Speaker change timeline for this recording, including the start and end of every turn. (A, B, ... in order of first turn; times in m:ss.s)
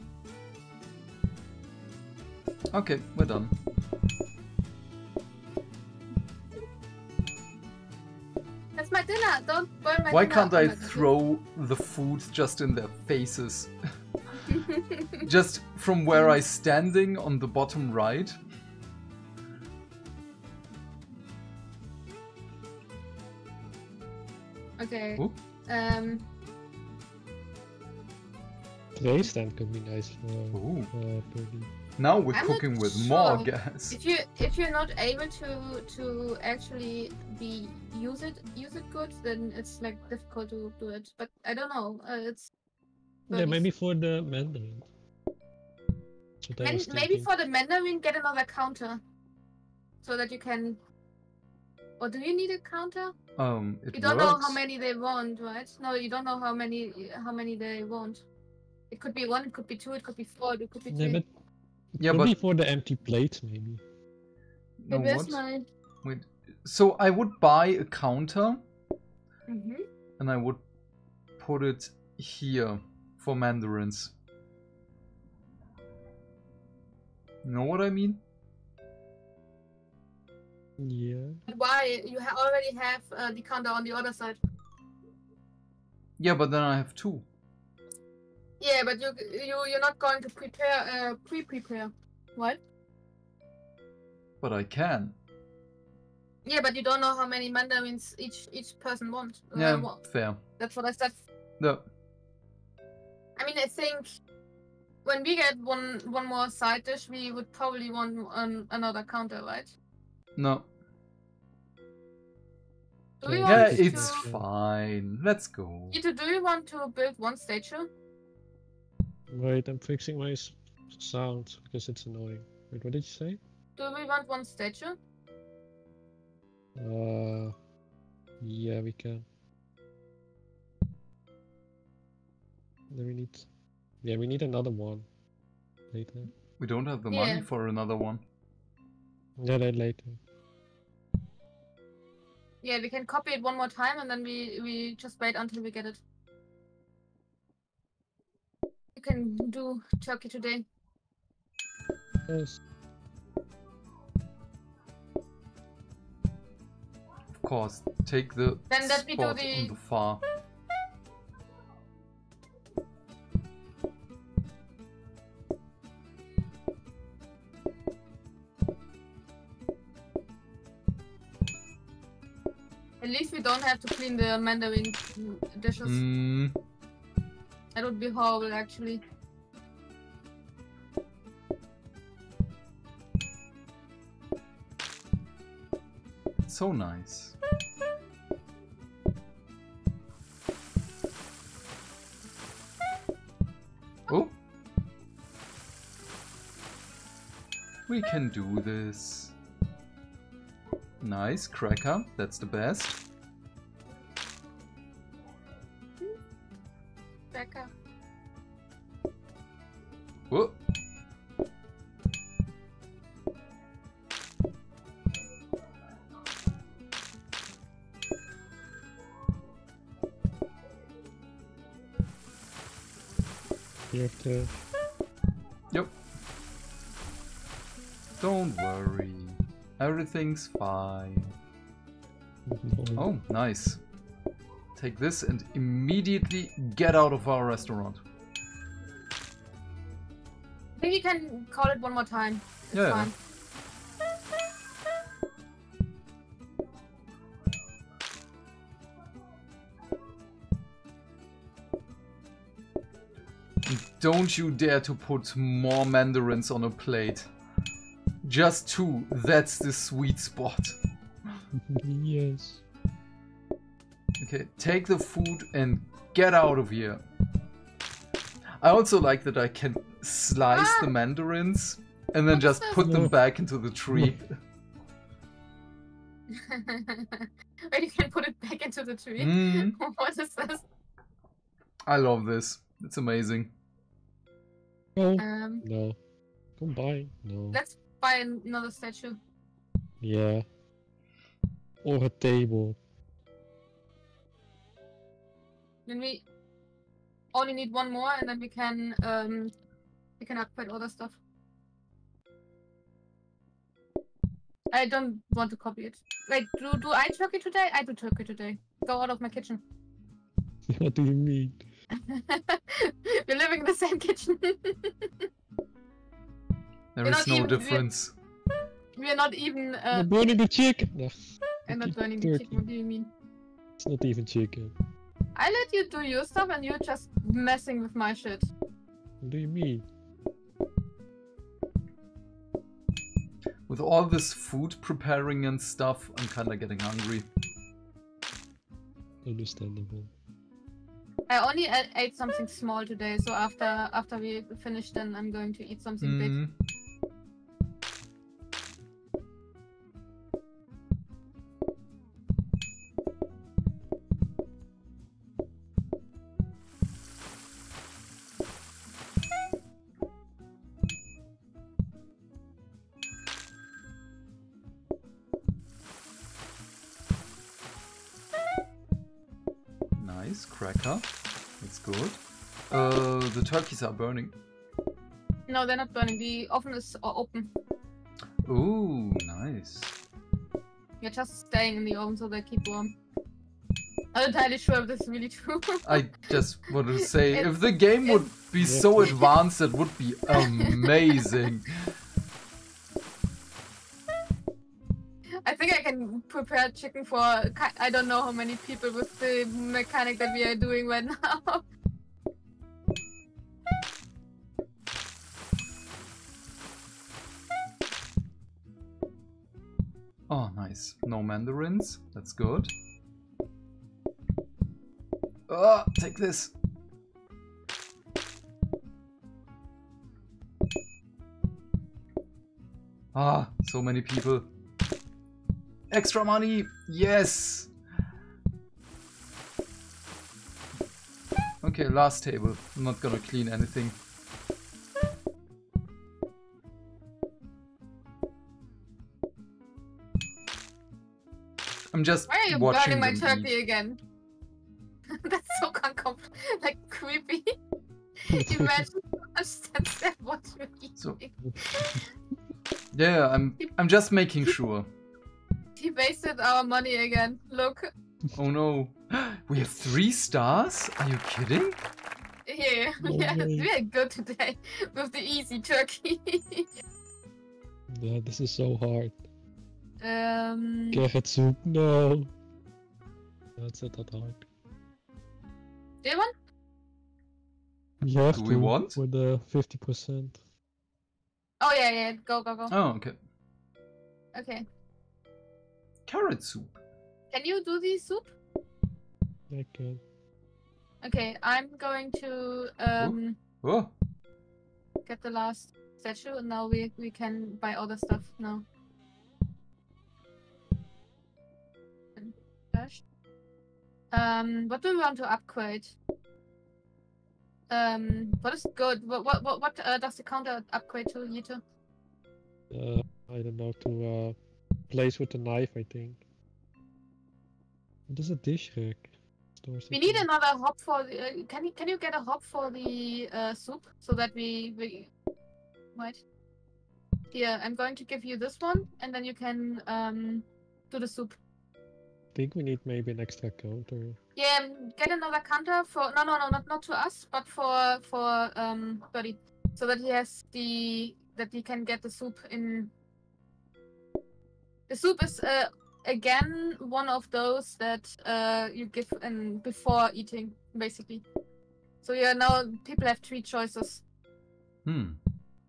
0:02.7-0:03.5 A
0:08.8-0:11.1 B
0:10.1-0:13.7 A
0:14.5-0:15.3 B
0:15.2-0:18.4 A
0:16.1-0:16.4 B
0:24.8-0:26.2 B
0:28.9-0:31.7 C
0:30.5-0:30.9 A
0:32.0-0:34.0 A
0:32.3-0:42.4 B
0:43.3-0:43.6 B
0:43.3-0:44.9 C
0:46.4-0:47.3 C
0:46.6-0:49.0 B
0:50.0-0:50.8 B
0:52.0-0:53.1 B
0:53.4-0:54.6 A
0:53.9-0:58.2 B
0:58.9-1:01.2 B
1:00.9-1:01.3 C
1:02.0-1:03.8 C
1:02.0-1:02.3 A
1:04.8-1:05.4 A
1:04.9-1:05.6 B
1:06.0-1:08.6 A
1:09.5-1:09.8 B
1:10.2-1:10.6 A
1:11.4-1:14.1 A
1:17.4-1:18.2 A
1:20.8-1:21.4 C
1:21.5-1:24.4 B
1:26.2-1:27.2 A
1:28.6-1:32.6 B
1:34.4-1:35.1 A
1:36.4-1:40.1 B
1:39.5-1:40.4 A
1:40.6-1:41.2 B
1:41.6-1:41.8 A
1:43.4-1:44.1 B
1:45.0-1:49.7 B
1:50.4-1:50.6 A
1:53.2-1:54.2 B
1:53.2-1:54.4 C
1:53.4-1:56.0 A
1:55.9-1:57.9 B
1:59.3-2:03.4 C
2:03.8-2:05.0 B
2:06.8-2:07.5 C
2:08.4-2:09.3 C
2:12.9-2:13.4 C
2:14.0-2:15.1 C
2:15.9-2:16.3 C
2:16.6-2:18.2 A
2:17.1-2:17.4 B
2:19.4-2:20.2 C
2:22.6-2:26.0 B
2:28.9-2:30.6 B
2:32.3-2:32.6 C
2:37.3-2:40.2 A
2:38.7-2:39.7 B
2:53.0-2:56.0 B
2:55.8-2:56.6 A
2:57.7-2:59.0 B
3:06.5-3:07.3 A
3:17.9-3:19.3 A
3:21.0-3:23.0 A
3:27.3-3:27.7 B
3:30.3-3:30.6 A
3:43.9-3:44.6 C
3:48.2-3:51.3 A
3:52.4-3:53.1 C
3:53.0-3:53.8 A
3:54.7-3:58.0 A
4:00.8-4:03.1 B
4:02.7-4:03.1 A
4:13.6-4:17.3 A
4:18.2-4:20.8 A
4:21.6-4:22.6 C
4:24.2-4:27.0 A
4:28.6-4:34.3 A
4:30.5-4:30.9 B
4:32.3-4:32.8 B
4:32.8-4:33.1 C
4:33.9-4:34.2 C
4:36.3-4:40.6 B
4:39.2-4:39.8 A
4:41.9-4:43.5 A
4:45.0-4:46.0 C
4:45.2-4:45.6 B
4:46.6-4:47.6 C
4:47.5-4:49.2 B
4:50.0-4:50.4 C
4:51.8-4:52.8 C
4:55.8-4:56.2 B
4:57.3-4:59.5 B
5:00.2-5:01.2 B
5:04.7-5:09.6 B
5:10.7-5:11.6 C
5:12.0-5:15.3 B
5:16.9-5:18.1 A
5:17.0-5:17.8 B
5:19.0-5:20.1 B
5:19.9-5:21.1 C
5:21.6-5:22.6 C
5:21.7-5:23.1 B
5:23.8-5:24.8 C
5:25.4-5:28.5 B
5:29.2-5:29.8 C
5:33.7-5:37.3 A
5:39.2-5:40.1 C
5:41.3-5:46.4 B
5:46.0-5:46.5 A
6:10.0-6:11.1 A
6:11.6-6:12.2 A
6:12.7-6:14.3 A
6:15.5-6:17.5 B
6:18.4-6:19.9 A
6:21.0-6:22.9 B
6:24.1-6:26.4 B
6:25.8-6:31.9 A
6:27.0-6:27.5 B
6:28.0-6:28.3 B
6:28.6-6:29.1 C
6:29.0-6:29.3 B
6:30.3-6:31.4 B
6:35.4-6:41.6 B
6:50.3-6:52.7 A
6:55.5-6:56.5 A
7:03.1-7:04.5 A
7:05.9-7:07.7 A
7:11.6-7:14.0 A
7:21.9-7:23.5 A
7:22.3-7:24.0 B
7:25.1-7:27.5 B
7:28.2-7:32.1 B
7:28.3-7:28.9 C
7:31.4-7:32.0 C
7:32.9-7:34.9 A
7:35.8-7:37.9 B
7:38.3-7:41.8 A
7:42.4-7:46.8 B
7:43.0-7:43.7 C
7:47.9-7:49.2 C
7:50.0-7:51.0 B
7:50.9-7:52.3 C
7:53.6-7:54.4 C
7:56.0-7:56.3 B
7:58.0-8:00.4 C
7:58.3-7:59.0 A
8:01.6-8:02.7 B
8:02.7-8:03.1 A
8:04.3-8:04.6 B
8:06.1-8:06.8 A
8:07.3-8:08.3 B
8:09.5-8:10.0 C
8:11.0-8:13.4 B
8:13.0-8:13.9 A
8:15.0-8:18.6 B
8:22.2-8:23.0 B
8:24.1-8:25.9 B
8:27.7-8:31.6 B
8:32.7-8:34.4 C
8:34.9-8:36.2 C
8:38.1-8:40.3 C
8:39.9-8:45.1 B
8:46.0-8:46.2 B
8:47.3-8:51.4 B
8:52.3-8:54.2 C
8:54.4-9:02.9 B
9:04.9-9:11.2 B
9:12.0-9:14.0 B
9:14.8-9:15.2 A